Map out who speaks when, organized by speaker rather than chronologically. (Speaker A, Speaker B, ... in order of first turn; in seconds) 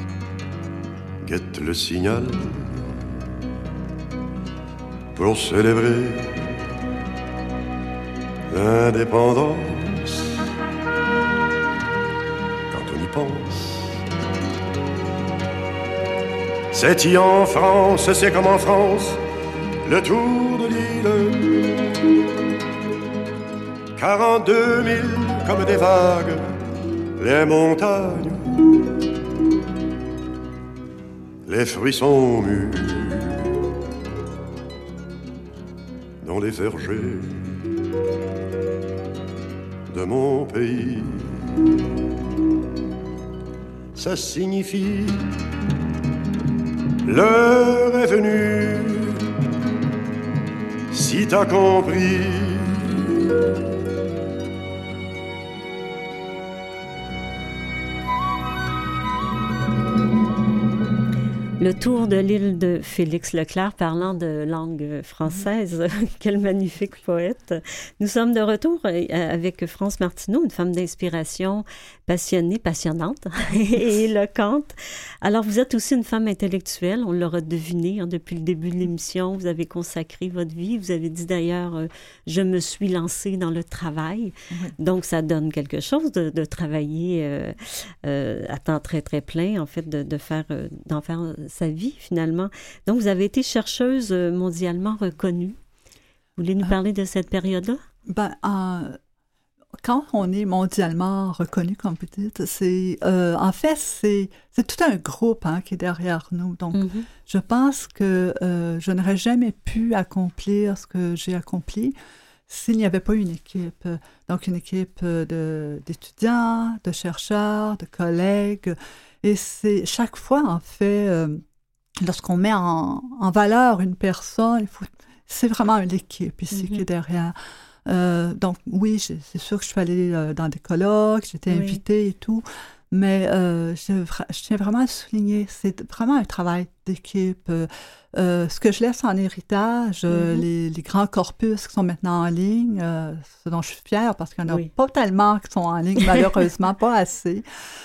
Speaker A: 1.2-2.8, 5.1-6.5, 8.5-10.4, 12.7-14.0, 16.7-19.2, 19.8-21.6, 23.9-26.5, 27.2-28.6, 31.4-33.5, 36.2-37.6, 39.9-41.3, 43.9-45.3, 47.0-49.2, 50.9-52.8
Speaker B: 61.6-95.6, 96.4-97.8, 106.7-107.1, 126.5-126.8, 131.5-131.8, 140.1-140.4
Speaker C: 98.1-99.0, 99.8-111.9, 112.5-121.4, 122.0-127.3, 127.8-147.4